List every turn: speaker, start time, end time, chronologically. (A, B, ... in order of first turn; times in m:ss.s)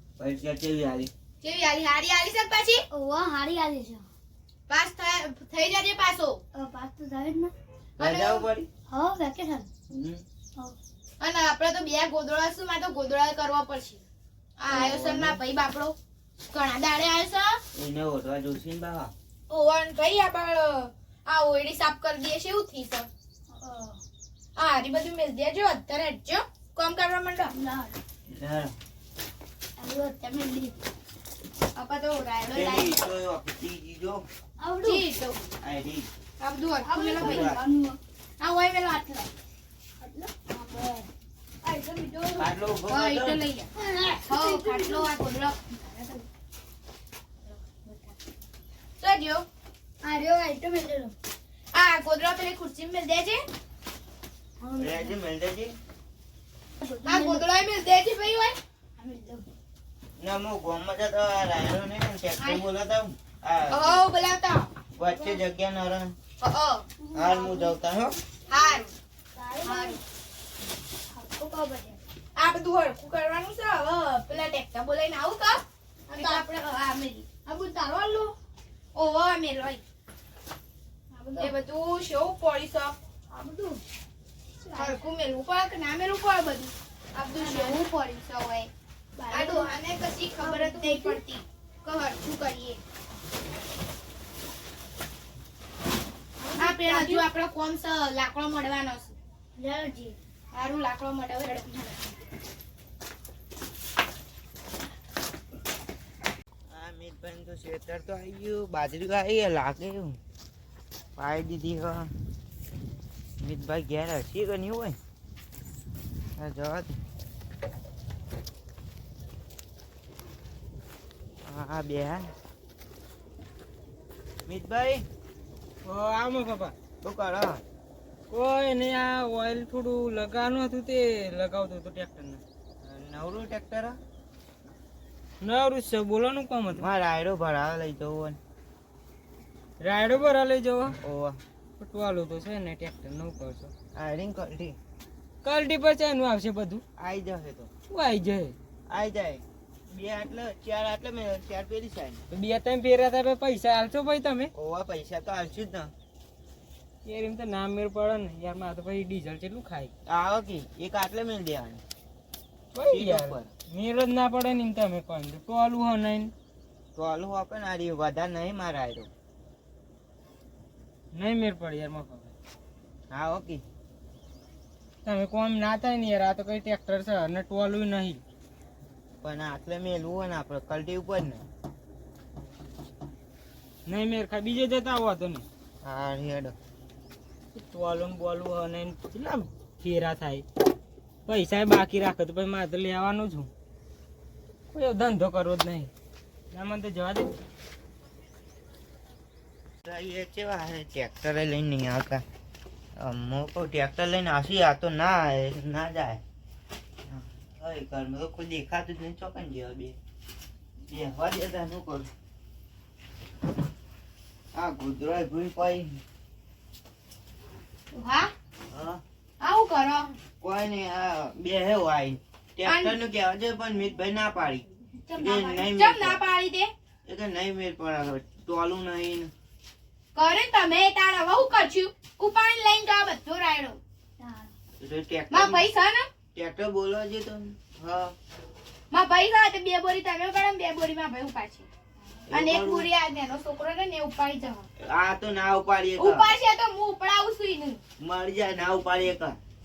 0:00.2-0:01.1 A
0:01.4-0:02.8 B
0:02.9-0:04.0 C
0:04.7-0:06.4 B
0:06.5-0:07.5 C
0:08.0-0:08.5 B
0:08.0-0:08.7 A
0:08.9-0:09.7 C
0:09.9-0:10.2 A
0:11.2-0:14.0 B
0:14.6-0:16.0 B
0:14.7-0:15.4 A
0:16.5-0:17.6 B
0:17.7-0:19.1 A
0:19.5-0:23.1 B
0:23.5-0:24.0 C
0:24.6-0:27.5 B
0:27.5-0:27.9 C
0:28.3-0:28.7 A
0:29.8-0:30.7 C
0:31.7-0:33.0 B
0:32.5-0:34.2 A
0:34.6-0:35.0 C
0:34.8-0:35.4 B
0:35.6-0:36.1 A
0:36.4-0:37.5 B
0:36.8-0:38.0 C
0:37.2-0:37.6 A
0:38.4-0:39.3 B
0:40.0-0:41.1 C
0:41.6-0:42.5 C
0:42.4-0:43.4 A
0:42.9-0:43.7 B
0:43.8-0:45.1 C
0:44.2-0:46.2 B
0:47.7-0:48.1 C
0:49.0-0:49.4 B
0:50.0-0:51.1 C
0:51.7-0:53.4 B
0:54.6-0:55.1 C
0:54.8-0:55.7 A
0:56.8-0:57.4 C
0:57.0-0:58.6 B
0:59.0-0:59.4 C
1:00.2-1:04.0 A
1:03.7-1:04.7 B
1:05.0-1:06.1 A
1:05.1-1:05.4 C
1:06.4-1:06.9 B
1:07.1-1:07.7 C
1:07.1-1:08.1 A
1:08.5-1:08.9 B
1:09.4-1:10.0 C
1:09.6-1:10.0 B
1:11.1-1:12.0 C
1:12.4-1:17.4 B
1:16.1-1:16.4 C
1:17.4-1:18.3 C
1:18.9-1:19.8 B
1:21.1-1:21.5 C
1:21.4-1:22.9 B
1:23.3-1:23.8 C
1:24.6-1:25.0 C
1:24.7-1:28.7 B
1:27.4-1:27.8 C
1:29.2-1:29.7 C
1:29.3-1:32.8 B
1:30.4-1:31.2 C
1:36.4-1:37.3 C
1:36.5-1:39.1 B
1:39.6-1:40.2 C
1:40.5-1:41.9 B
1:46.7-1:50.2 A
1:51.2-1:52.1 A
1:53.4-1:55.0 A
1:56.4-1:57.0 A
2:01.4-2:02.3 A
2:04.5-2:05.0 A
2:05.8-2:06.7 D
2:07.0-2:07.6 A
2:08.3-2:12.4 D
2:12.8-2:14.0 A
2:15.4-2:16.8 D
2:16.8-2:18.4 A
2:19.8-2:21.0 D
2:21.0-2:21.4 A
2:21.8-2:23.7 D
2:23.9-2:24.8 A
2:25.4-2:26.8 D
2:27.0-2:27.7 A
2:27.9-2:28.5 D
2:28.9-2:32.2 A
2:32.3-2:34.5 D
2:34.5-2:35.9 A
2:37.0-2:39.9 D
2:40.1-2:41.8 A
2:42.7-2:46.3 D
2:42.9-2:43.5 A
2:46.9-2:49.1 A
2:51.1-2:52.3 D
2:53.1-2:53.6 A
2:55.0-2:58.2 D
2:59.2-3:01.4 A
3:03.8-3:05.4 D
3:05.8-3:06.6 A
3:07.5-3:10.4 D
3:11.2-3:13.5 D
3:14.7-3:15.9 D
3:16.5-3:17.3 D
3:19.8-3:22.2 A
3:23.0-3:26.2 A
3:27.1-3:30.0 A
3:30.9-3:32.1 A
3:34.5-3:36.0 A
3:37.9-3:38.3 B
3:38.7-3:39.0 A
3:39.4-3:40.1 B
3:40.4-3:46.2 A
3:42.6-3:43.0 B
3:45.0-3:46.7 B
3:47.0-3:49.3 A
3:50.1-3:53.8 B
3:54.2-3:54.5 C
3:54.8-3:55.7 A
3:55.3-3:56.1 B
3:56.3-3:58.1 A
3:58.9-4:01.7 B
4:02.3-4:02.9 A
4:02.3-4:04.6 B
4:04.8-4:06.3 A
4:06.0-4:07.8 B
4:08.0-4:09.4 A